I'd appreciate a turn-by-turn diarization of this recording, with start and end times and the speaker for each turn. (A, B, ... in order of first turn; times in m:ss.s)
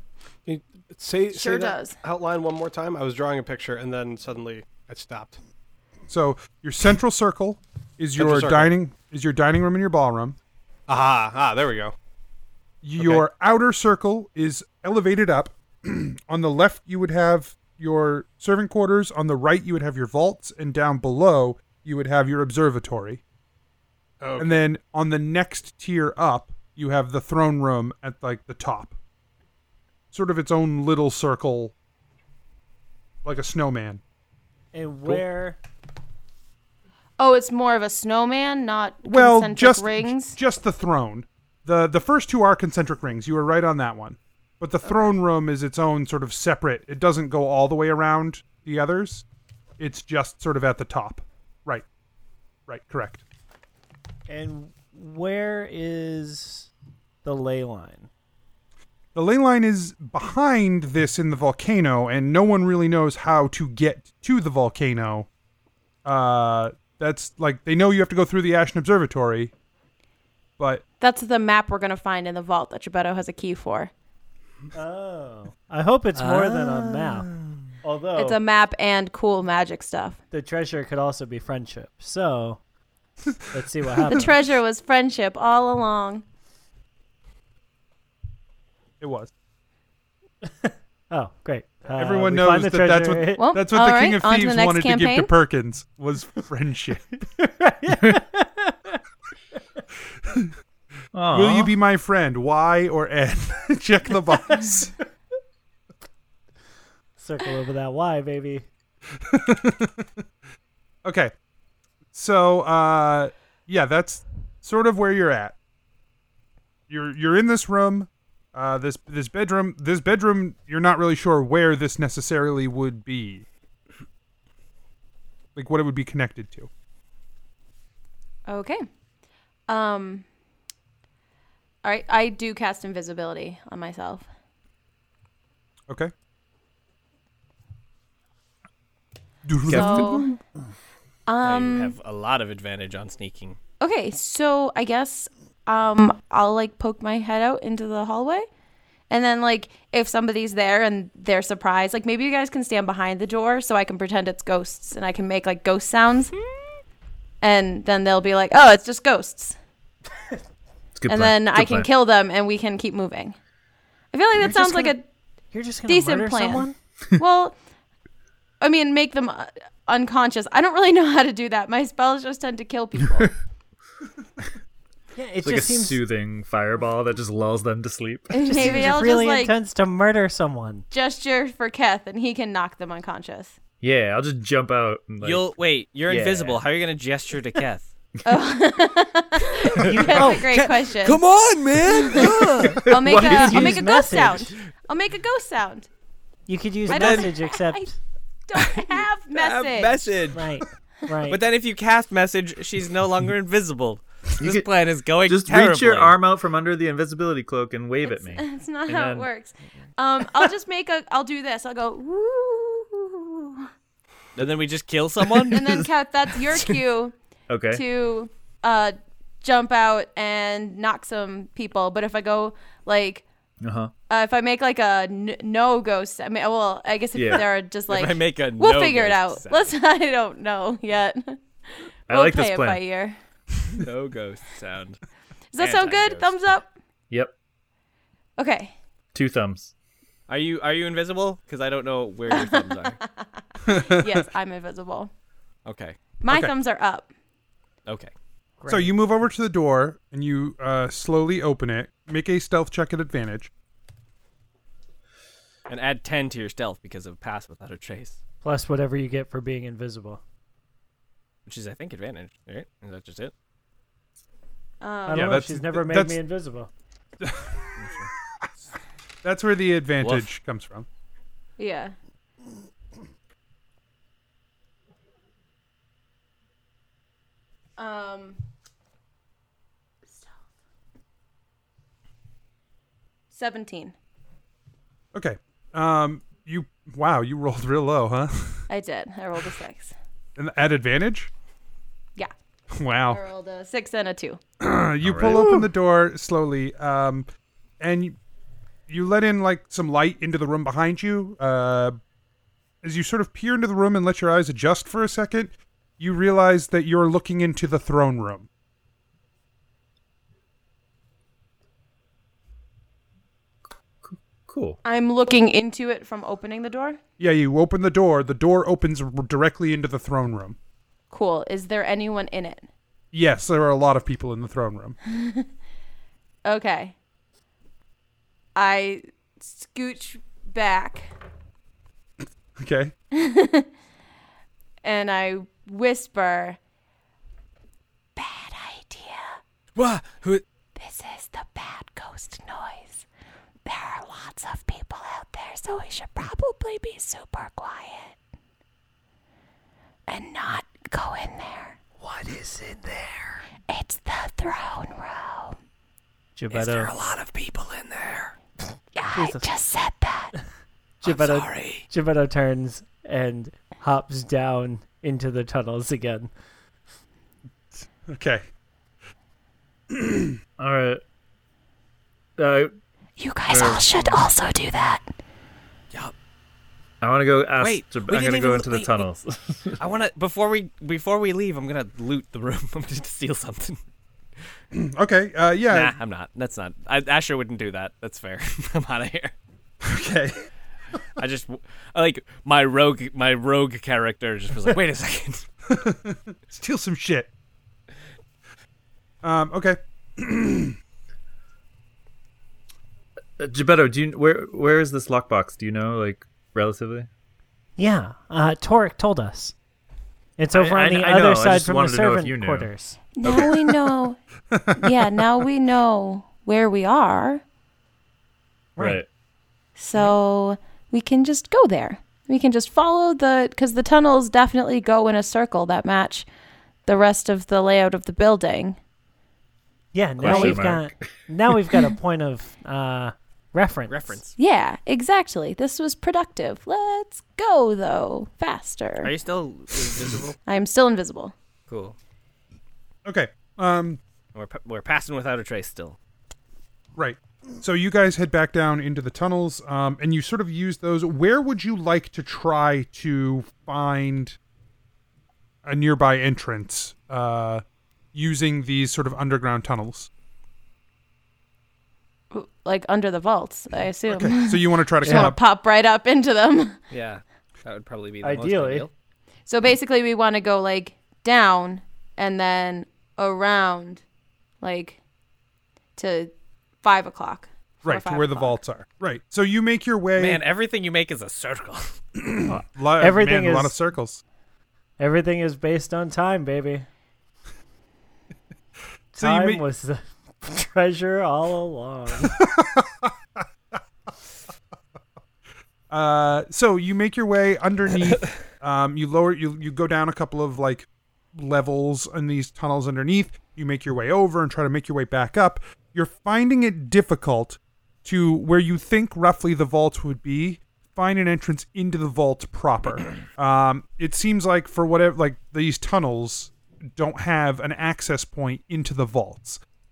0:00.4-0:05.4 A
0:01.3-0:02.0 B
0:06.1-0:10.4 C
0:08.2-0:08.7 A
0:10.9-0:11.9 A
0:12.8-0:23.2 C
0:13.0-0:13.2 A
0:24.2-0:24.6 A
0:24.4-0:29.0 C
0:30.1-0:31.7 C
0:33.2-0:34.0 C
0:34.7-0:35.6 D
0:37.2-0:40.4 B
0:39.0-0:49.2 C
0:49.8-0:51.8 C
0:52.7-0:53.2 C
0:54.3-0:56.7 D
0:57.2-0:58.1 D
0:59.1-1:05.3 C
1:06.0-1:09.5 C
1:11.0-1:13.9 B
1:14.7-1:17.3 D
1:16.1-1:17.7 E
1:17.8-1:18.4 D
1:18.2-1:20.2 B
1:20.3-1:22.6 D
1:23.5-1:24.4 D
1:24.0-1:26.2 B
1:29.0-1:29.3 C
1:30.6-1:33.4 D
1:32.0-1:37.1 C
1:33.4-1:35.3 B
1:37.4-1:39.0 D
1:41.1-1:41.7 F
1:41.3-1:44.9 C
1:47.2-1:48.6 D
1:49.2-1:50.1 C
1:51.0-1:51.3 C
1:52.1-1:55.6 C
1:56.9-2:03.4 C
2:05.6-2:06.7 C
2:08.5-2:08.8 B
2:09.7-2:10.2 B
2:11.8-2:14.2 B
2:19.4-2:20.3 C
2:19.7-2:20.3 F
2:19.7-2:20.3 B
2:21.3-2:21.9 B
2:21.4-2:23.6 E
2:23.8-2:28.5 B
2:29.1-2:36.3 B
2:37.4-2:39.6 B
2:40.9-2:41.9 F
2:41.1-2:43.4 B
2:44.1-2:45.0 B
2:44.3-2:45.0 D
2:45.5-2:46.7 D
2:45.9-2:46.6 B
2:47.2-2:47.6 B
2:48.6-2:53.3 B
2:55.2-2:56.0 D
2:55.4-2:59.0 F
2:58.3-2:59.5 B
2:58.4-3:00.8 D
3:00.9-3:03.5 B
3:03.8-3:05.5 F
3:05.2-3:07.9 E
3:06.0-3:06.6 F
3:08.2-3:11.2 B
3:09.7-3:13.7 E
3:09.9-3:10.5 D
3:11.8-3:15.9 B
3:12.3-3:14.5 D
3:13.1-3:13.4 F
3:16.5-3:18.0 D
3:16.9-3:17.9 B
3:16.9-3:17.3 E
3:18.5-3:20.2 B
3:18.6-3:20.5 E
3:20.3-3:21.4 D
3:21.3-3:26.2 E
3:24.4-3:24.6 F
3:25.2-3:29.3 F
3:28.0-3:33.7 B
3:34.4-3:35.8 E
3:35.5-3:37.1 B
3:37.5-3:37.8 F
3:37.7-3:43.2 B
3:43.6-3:43.9 F
3:44.1-3:53.2 B
3:47.1-3:47.4 F
3:47.9-3:49.8 E
3:52.1-3:52.8 F
3:53.7-3:55.0 E
3:55.5-3:56.7 B
3:55.6-3:56.3 E
3:58.4-3:58.7 B
3:59.1-3:59.7 F
4:00.3-4:03.0 E
4:02.3-4:02.7 B
4:03.6-4:04.1 C
4:03.7-4:05.1 B
4:05.6-4:06.0 E
4:06.2-4:07.1 B
4:08.6-4:08.9 D
4:08.7-4:13.5 C
4:15.7-4:18.2 E
4:18.4-4:20.2 D
4:21.4-4:23.3 E
4:24.8-4:25.4 B
4:25.1-4:26.7 D
4:25.1-4:26.2 C
4:27.2-4:27.6 C
4:27.8-4:28.1 E
4:29.2-4:30.8 C
4:30.0-4:30.3 E
4:31.6-4:31.9 B
4:37.8-4:38.4 B
4:43.3-4:43.9 B
4:45.1-4:48.7 C
4:48.7-4:49.9 B
4:50.4-4:51.3 C
4:52.7-4:53.2 C
4:53.1-4:54.4 B
4:54.6-4:57.3 C
4:55.0-4:55.6 F
4:57.8-4:58.2 C
4:58.9-5:02.0 C
5:02.8-5:08.5 C
5:14.0-5:14.8 F
5:14.8-5:17.0 B
5:17.2-5:20.6 C
5:21.1-5:22.6 B
5:23.1-5:25.0 C
5:25.1-5:25.5 B
5:26.4-5:26.9 B
5:28.6-5:31.1 B
5:32.6-5:32.9 C
5:33.1-5:33.7 B
5:34.8-5:36.6 B
5:38.2-5:39.4 B
5:39.8-5:40.4 E
5:40.8-5:43.0 B
5:43.6-5:48.1 B
5:50.1-5:51.8 B
5:52.0-5:53.4 D
5:53.7-5:55.6 B
5:56.4-5:56.9 D
5:56.5-5:58.3 E
5:58.9-6:00.3 B
5:59.1-5:59.5 D
6:01.0-6:06.3 D
6:01.0-6:01.8 E
6:08.1-6:08.5 C
6:09.9-6:10.3 C
6:10.6-6:11.0 F
6:12.4-6:12.7 F
6:13.2-6:15.1 B
6:13.5-6:14.2 F
6:17.0-6:19.8 F
6:17.6-6:19.1 E
6:19.8-6:23.8 E
6:24.7-6:26.0 C
6:25.7-6:29.3 E
6:29.8-6:30.4 C
6:31.2-6:35.5 E
6:35.7-6:37.3 C
6:39.2-6:40.8 C
6:43.4-6:47.1 F
6:47.8-6:49.5 D
6:50.4-6:53.0 D
6:50.5-6:53.6 F
6:53.1-6:54.2 B
6:54.5-6:54.8 C
6:54.8-6:57.4 B
6:58.8-6:59.0 D
6:58.8-6:59.0 F
6:59.8-7:06.3 B
7:06.8-7:08.8 B
7:09.9-7:14.2 D
7:10.2-7:11.9 F
7:10.2-7:10.6 B
7:13.9-7:14.3 E
7:14.4-7:19.1 B
7:19.0-7:20.4 E
7:20.5-7:21.3 B
7:21.7-7:22.0 E
7:23.0-7:24.0 C
7:24.3-7:26.0 E
7:27.0-7:34.4 C
7:35.6-7:40.1 C
7:42.3-7:46.8 B
7:44.1-7:45.4 C
7:45.0-7:45.3 D
7:46.9-7:48.9 E
7:48.2-7:48.9 D
7:49.5-7:54.0 B
7:54.6-7:55.0 B
7:56.0-7:56.3 B
7:56.8-7:58.6 B
7:57.8-8:00.4 C
8:00.2-8:02.0 E
8:02.2-8:04.2 C
8:02.5-8:03.8 D
8:05.0-8:06.9 D
8:09.1-8:12.4 D
8:09.2-8:09.6 C
8:12.4-8:13.4 C
8:15.9-8:39.6 C